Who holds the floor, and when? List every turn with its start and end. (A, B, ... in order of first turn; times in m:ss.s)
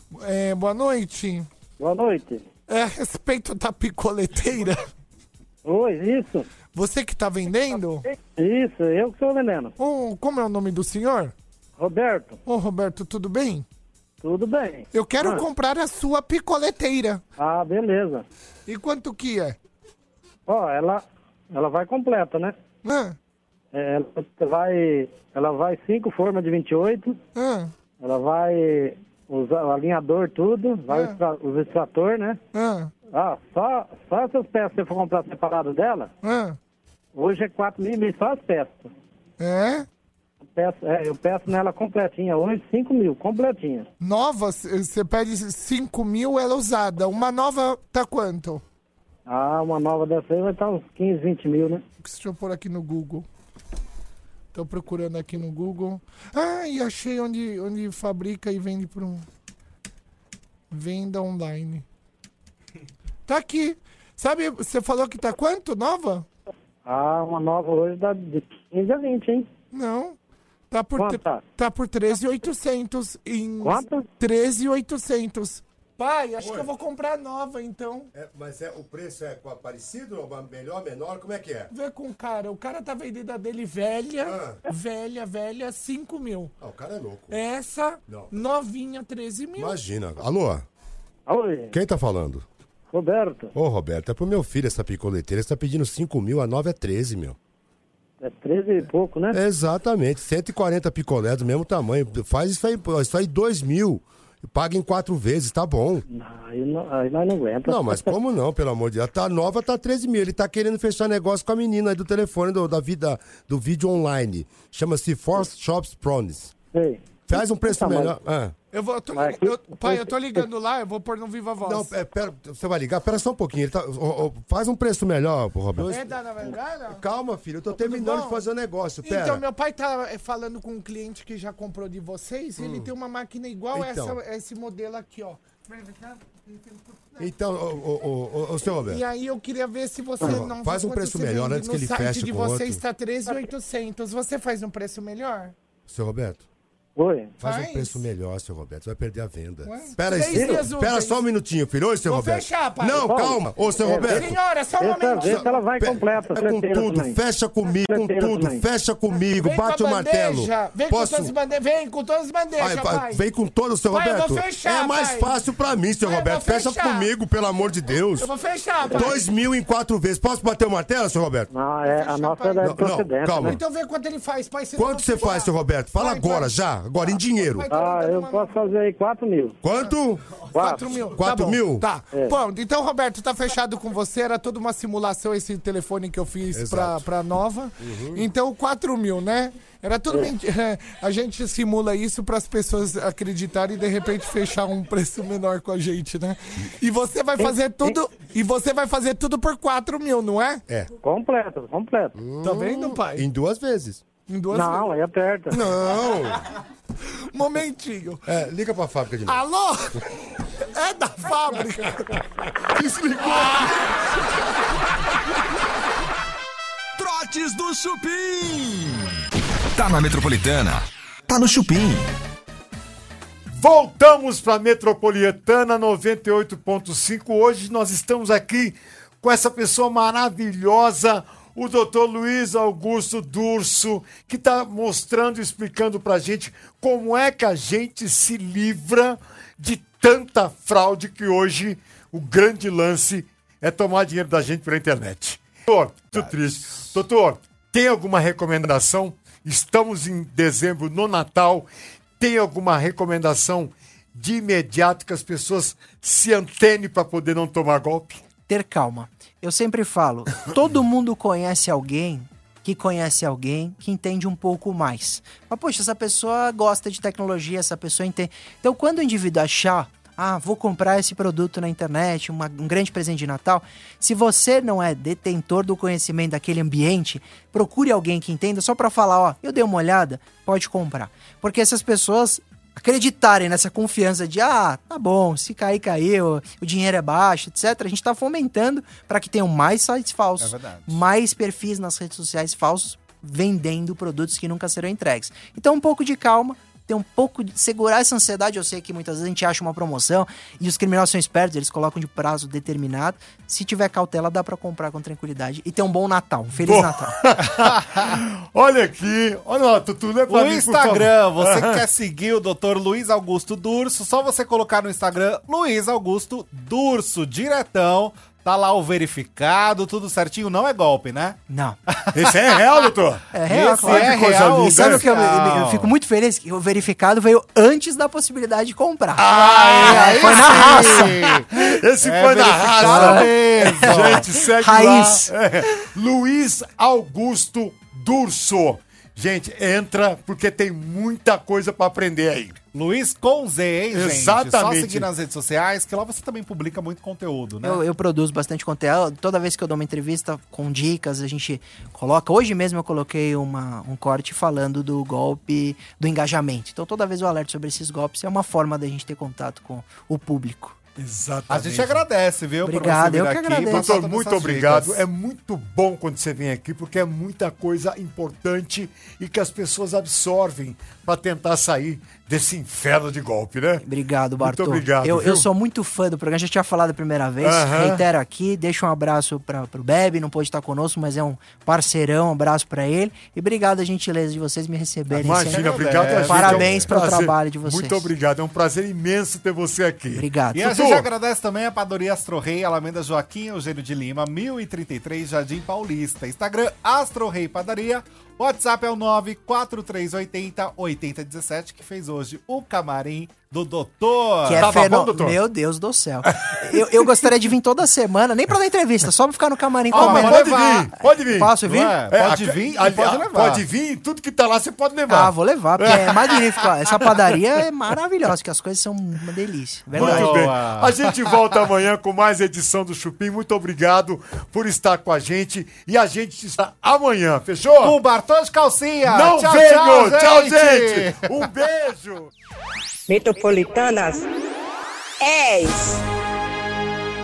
0:00.1-0:01.5 A
0:01.8-0:02.5 B
0:02.7-0:04.8 A
0:05.6-0:06.5 B
0:06.7-0:08.0 A
0:08.4-0:09.7 B
0:09.8-0:11.3 A
0:11.8-0:12.4 B
0:12.4-0:13.6 A
0:14.2-0:15.4 B
0:14.9-0:17.2 A
0:17.4-0:18.2 B
0:18.7-0:19.6 A
0:20.5-0:22.5 B
0:22.8-0:23.2 A
0:23.7-0:27.2 B
0:27.3-0:27.7 A
0:28.0-0:32.4 B
0:30.9-0:31.2 A
0:32.5-0:32.9 A
0:33.1-0:36.1 B
0:36.2-0:36.6 A
0:37.1-0:38.9 B
0:39.4-0:39.8 A
0:40.5-0:43.9 B
0:44.0-0:48.6 A
0:49.3-0:51.8 B
0:52.0-0:53.2 A
0:54.5-0:59.2 A
1:00.7-1:01.8 A
1:03.3-1:06.2 A
1:06.8-1:09.5 B
1:09.7-1:10.2 A
1:10.7-1:18.1 A
1:11.0-1:11.4 B
1:13.6-1:14.0 B
1:16.4-1:16.7 C
1:18.1-1:21.7 C
1:21.7-1:26.5 A
1:24.2-1:24.6 C
1:26.6-1:27.3 C
1:27.3-1:29.8 A
1:29.6-1:30.6 C
1:31.3-1:31.7 B
1:31.7-1:32.4 C
1:32.9-1:33.5 B
1:33.5-1:37.4 C
1:38.2-1:39.4 B
1:39.3-1:46.0 C
1:46.1-1:48.2 B
1:47.6-1:56.5 C
1:56.7-1:58.2 B
1:57.3-1:58.5 C
1:58.7-2:01.9 A
1:59.1-2:00.4 B
2:01.6-2:06.1 C
2:05.9-2:07.0 A
2:06.9-2:09.4 C
2:07.8-2:08.4 A
2:09.0-2:17.3 A
2:12.6-2:12.9 C
2:13.7-2:14.2 C
2:17.2-2:19.0 C
2:18.8-2:25.5 A
2:20.2-2:22.8 C
2:25.9-2:26.4 C
2:27.0-2:27.4 B
2:27.4-2:34.4 C
2:27.4-2:28.0 A
2:29.6-2:31.2 A
2:30.3-2:30.7 B
2:32.0-2:33.1 A
2:33.0-2:37.2 B
2:34.0-2:35.5 A
2:35.2-2:41.3 C
2:37.9-2:38.6 B
2:39.3-2:43.2 A
2:42.6-2:48.3 C
2:43.9-2:45.4 A
2:46.0-2:47.1 A
2:48.2-2:49.2 A
2:48.8-2:49.2 B
2:48.9-2:51.5 C
2:51.5-2:53.6 B
2:51.8-2:56.6 A
2:52.6-2:53.6 C
2:54.7-2:57.7 C
2:57.1-2:58.6 A
2:57.7-2:59.6 B
2:59.6-3:00.4 C
2:59.9-3:20.6 A
3:00.5-3:01.0 B
3:01.1-3:01.9 C
3:06.5-3:07.0 C
3:07.8-3:08.2 C
3:17.4-3:18.0 B
3:21.0-3:22.1 B
3:22.2-3:24.0 C
3:22.4-3:23.2 A
3:24.3-3:24.9 A
3:24.5-3:25.6 B
3:25.5-3:26.4 C
3:27.1-3:28.3 A
3:28.2-3:29.4 C
3:29.2-3:30.0 A
3:30.7-3:32.2 A
3:32.7-3:33.9 A
3:37.0-3:42.1 D
3:43.5-4:11.7 E
4:12.2-4:18.2 E
4:18.5-5:07.2 F
4:50.4-4:51.0 G
5:06.6-5:11.8 E
5:10.3-5:22.3 G
5:21.5-5:21.8 F
5:22.1-5:25.0 E
5:23.3-5:31.2 F
5:23.4-5:25.9 G
5:29.2-5:42.6 E
5:29.4-5:34.3 G
5:32.8-5:35.3 F
5:42.7-5:47.8 G
5:43.9-5:45.1 E
5:47.6-6:00.8 F
6:01.0-6:02.0 E
6:01.5-6:05.0 G
6:02.6-6:03.9 F
6:03.7-6:13.8 E
6:13.8-6:28.1 F
6:14.4-6:15.5 E
6:17.4-6:18.1 E
6:25.1-6:26.9 G
6:25.2-6:31.0 E
6:30.1-6:30.7 F
6:30.5-6:44.8 G
6:44.4-6:50.5 F
6:44.6-6:45.4 E
6:46.4-6:47.2 E
6:49.9-6:50.9 G
6:49.9-6:51.6 E
6:51.0-6:52.0 F
6:51.6-6:53.6 G
6:52.1-6:56.4 E
6:55.1-7:00.4 F
6:59.9-7:01.1 G
6:59.9-7:08.0 E
7:07.8-7:11.4 G
7:09.1-7:12.3 E
7:13.1-7:14.3 H
7:15.2-7:16.0 H